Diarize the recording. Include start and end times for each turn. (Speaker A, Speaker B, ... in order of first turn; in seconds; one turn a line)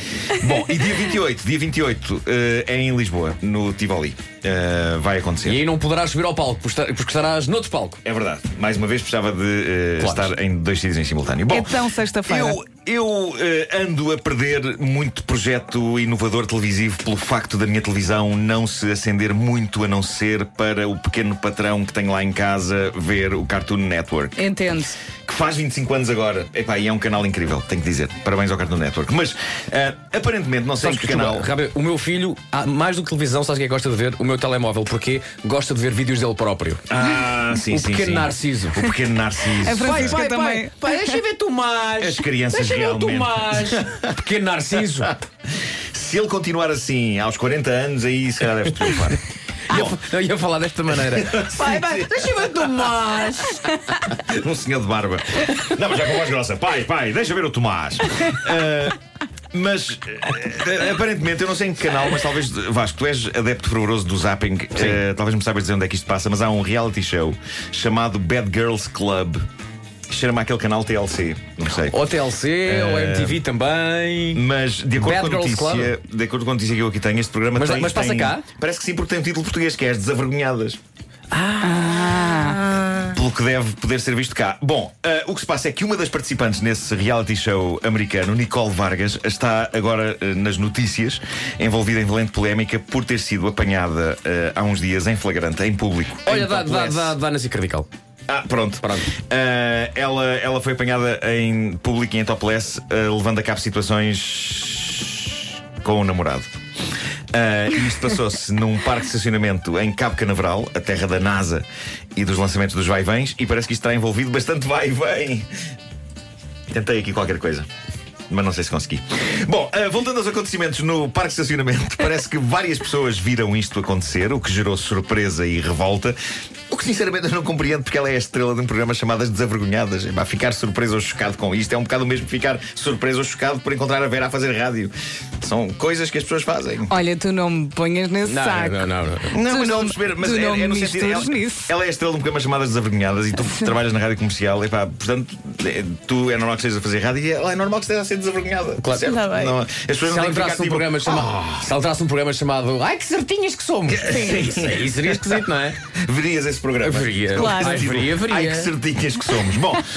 Speaker A: 0.3-5.6
Speaker B: 5.4-8.0
Speaker A: 8.0-11.7
Speaker B: 10.0-10.3
Speaker C: 11.5-12.6
Speaker A: 12.3-24.5
Speaker C: 24.4-25.0
Speaker A: 25.2-31.5
Speaker B: 30.8-36.8
Speaker A: 36.9-40.2
Speaker B: 37.5-38.9
Speaker C: 39.6-41.1
Speaker B: 39.8-45.1
Speaker A: 42.0-43.9
Speaker A: 45.9-50.0
Speaker B: 49.7-53.6
Speaker A: 50.9-52.9
Speaker A: 54.0-59.0
Speaker A: 59.5-69.4
Speaker B: 64.8-65.0
Speaker A: 70.1-72.0
Speaker B: 71.8-74.4
Speaker A: 72.7-73.4
Speaker A: 74.3-80.8
Speaker B: 75.0-76.0
Speaker B: 77.5-78.4
Speaker B: 81.3-83.2
Speaker C: 81.6-82.6
Speaker A: 83.1-97.1
Speaker B: 96.2-97.9
Speaker A: 98.3-106.5
Speaker B: 98.8-99.1
Speaker A: 107.3-115.5
Speaker A: 116.7-117.7
Speaker A: 118.3-126.2
Speaker A: 126.7-136.9
Speaker C: 136.9-141.7
Speaker B: 138.2-139.4
Speaker A: 139.3-151.7
Speaker B: 148.8-149.2
Speaker C: 149.0-149.5
Speaker B: 150.0-155.8
Speaker A: 153.9-159.8
Speaker C: 154.1-154.4
Speaker B: 156.8-158.7
Speaker C: 157.3-157.9